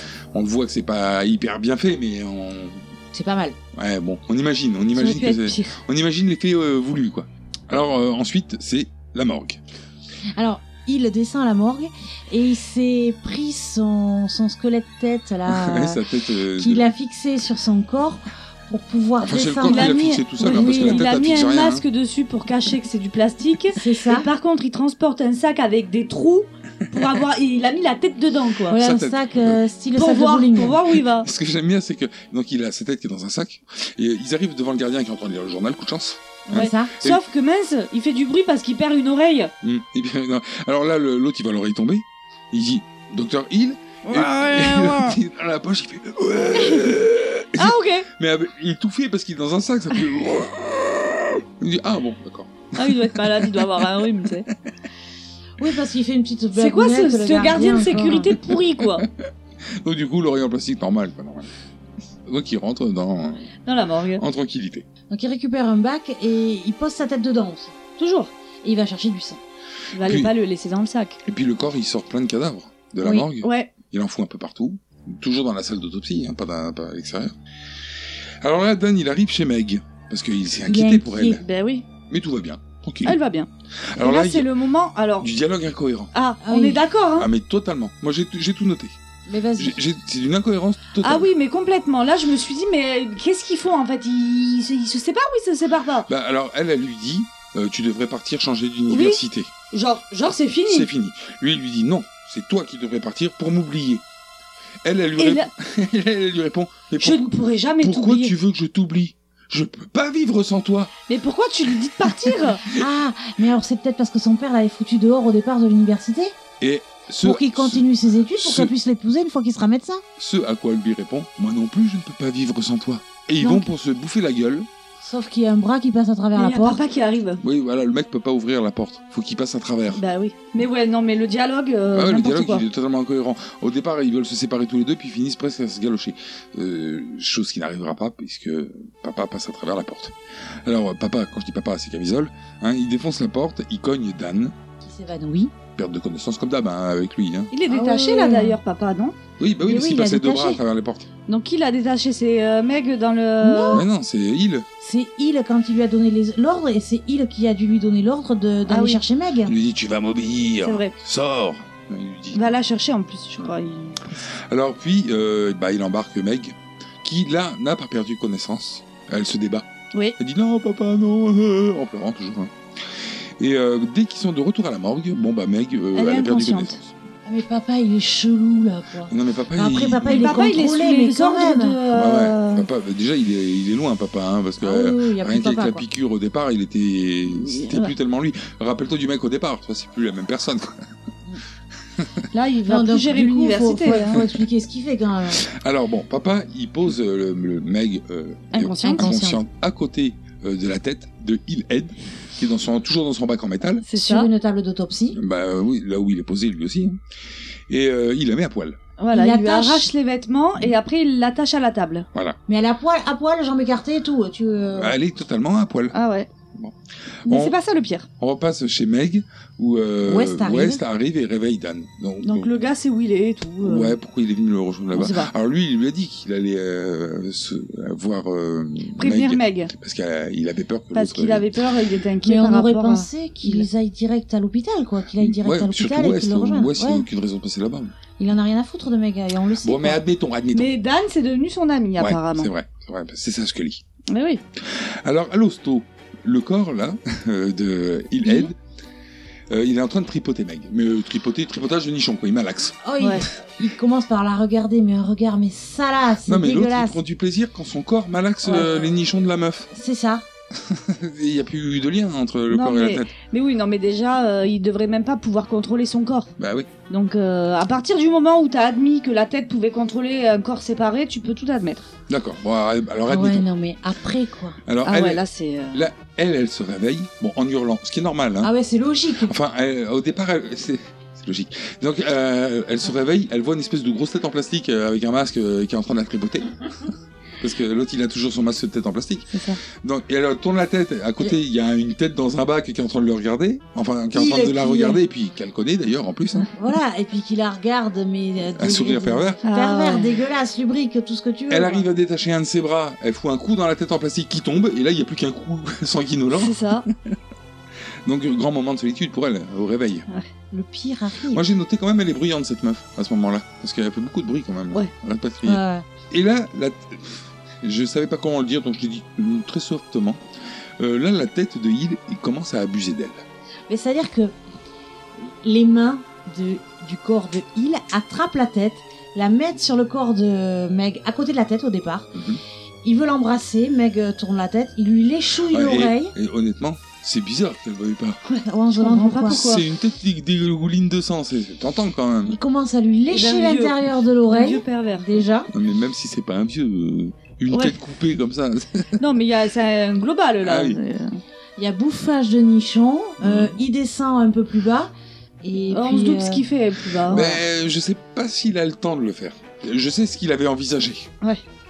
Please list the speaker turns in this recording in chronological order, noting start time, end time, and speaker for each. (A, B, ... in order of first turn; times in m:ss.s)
0:00.3-0:02.9 A
0:03.1-0:03.6 B
0:03.7-0:09.6 A
0:05.0-0:05.8 C
0:10.4-0:16.0 B
0:15.5-0:16.9 A
0:16.5-0:21.1 B
0:19.2-0:21.8 A
0:19.7-0:28.8 C
0:23.7-0:24.3 B
0:28.7-0:30.8 B
0:28.8-0:29.6 A
0:30.0-0:31.3 C
0:31.1-0:37.2 A
0:36.5-0:39.5 C
0:36.5-0:37.0 B
0:39.6-0:54.0 A
0:44.0-0:45.2 C
0:46.6-0:46.9 C
0:47.6-0:48.1 C
0:52.8-0:54.5 C
0:55.6-0:58.4 B
0:56.6-0:59.0 C
0:59.0-0:59.3 A
0:59.8-1:01.5 A
1:02.3-1:03.5 A
1:03.7-1:04.2 C
1:04.2-1:04.9 A
1:05.1-1:07.8 B
1:08.0-1:08.3 C
1:08.6-1:09.4 B
1:09.9-1:11.2 C
1:10.0-1:10.3 A
1:11.2-1:17.4 A
1:13.1-1:13.7 C
1:18.4-1:21.4 A
1:20.7-1:21.4 B
1:21.4-1:21.8 C
1:22.1-1:23.2 A
1:23.0-1:25.3 C
1:23.8-1:24.5 A
1:25.2-1:26.1 A
1:26.1-1:27.3 C
1:26.4-1:26.8 B
1:27.2-1:29.0 A
1:29.3-1:29.8 B
1:29.6-1:31.3 A
1:31.0-1:36.1 C
1:36.1-1:39.5 A
1:38.9-1:39.2 C
1:39.7-1:40.9 C
1:40.7-1:44.0 A
1:44.8-1:50.9 A
1:45.2-1:45.5 C
1:47.0-1:48.4 C
1:51.1-1:52.6 C
1:52.7-1:56.3 B
1:56.6-1:58.7 A
1:57.2-2:00.0 B
2:00.2-2:04.7 A
2:03.4-2:03.7 B
2:05.0-2:06.8 B
2:06.4-2:07.4 C
2:07.4-2:10.0 A
2:09.9-2:12.6 C
2:11.9-2:24.6 A
2:24.8-2:25.5 B
2:25.8-2:27.5 A
2:27.5-2:29.2 C
2:27.7-2:28.6 B
2:29.4-2:31.1 A
2:29.7-2:30.6 B
2:31.3-2:33.8 C
2:33.4-2:33.9 B
2:33.7-2:34.7 A
2:34.8-2:39.6 B
2:38.7-2:39.0 C
2:39.5-2:42.6 A
2:40.6-2:40.9 C
2:42.3-2:44.0 C
2:44.5-2:49.7 A
2:50.2-2:52.5 A
2:53.4-2:57.0 A
2:55.9-2:56.8 C
2:57.3-3:01.8 B
2:59.1-3:00.5 A
3:00.1-3:02.7 C
3:01.9-3:10.9 A
3:04.6-3:05.8 B
3:07.3-3:07.9 C
3:12.3-3:14.2 C
3:12.7-3:15.4 B
3:14.2-3:14.4 A
3:15.3-3:23.8 A
3:18.5-3:19.4 B
3:18.6-3:19.1 C
3:23.9-3:24.3 C
3:23.9-3:25.2 B
3:25.1-3:27.0 A
3:27.7-3:28.8 A
3:29.0-3:32.1 C
3:29.1-3:29.9 B
3:32.5-3:35.0 B
3:34.8-3:36.0 A
3:35.9-3:36.3 C
3:36.5-3:37.6 A
3:37.3-3:38.1 C
3:38.2-3:42.5 A
3:40.0-3:40.8 B
3:42.2-3:44.0 C
3:43.6-3:51.6 A
3:44.9-3:45.3 C
3:49.0-3:49.7 C
3:50.9-3:53.7 C
3:52.2-3:57.1 B
3:55.2-3:57.9 A
3:58.2-4:00.0 B
3:59.6-4:00.7 A
4:00.5-4:02.5 C
4:02.0-4:03.8 A
4:04.1-4:04.4 C
4:04.6-4:08.6 A
4:09.5-4:12.8 A
4:12.8-4:17.0 B
4:13.0-4:13.3 C
4:16.3-4:19.7 A
4:18.4-4:19.1 B
4:19.7-4:20.2 B
4:20.5-4:23.1 A
4:22.5-4:26.3 C
4:26.4-4:26.7 A
4:26.9-4:31.9 C
4:32.1-4:33.5 A
4:33.1-4:34.6 B
4:34.7-4:35.2 A
4:34.8-4:35.8 C
4:35.7-4:38.5 A
4:38.4-4:39.3 B
4:39.2-4:46.9 A
4:47.4-4:56.5 A
4:49.3-4:49.6 C
4:54.1-4:55.0 B
4:56.5-5:01.9 B
4:58.6-4:59.4 A
4:59.4-5:00.1 C
5:01.5-5:07.2 A
5:06.3-5:06.9 C
5:08.0-5:10.1 A
5:10.5-5:11.4 B
5:11.3-5:20.2 A
5:15.4-5:15.8 B
5:20.8-5:23.2 A
5:23.7-5:24.3 B
5:25.2-5:32.1 B
5:32.1-5:32.4 A
5:32.8-5:36.1 B
5:35.5-5:38.2 A
5:38.3-5:39.5 B
5:38.7-5:39.6 C
5:39.3-5:42.4 A
5:42.3-5:45.5 B
5:43.1-5:45.2 C
5:45.5-5:49.0 A
5:49.0-5:51.2 C
5:50.4-5:50.8 A
5:51.6-5:54.9 B
5:53.2-5:53.6 A
5:55.4-5:56.4 B
5:55.7-5:57.2 C
5:57.1-5:57.4 B
5:57.1-6:01.1 A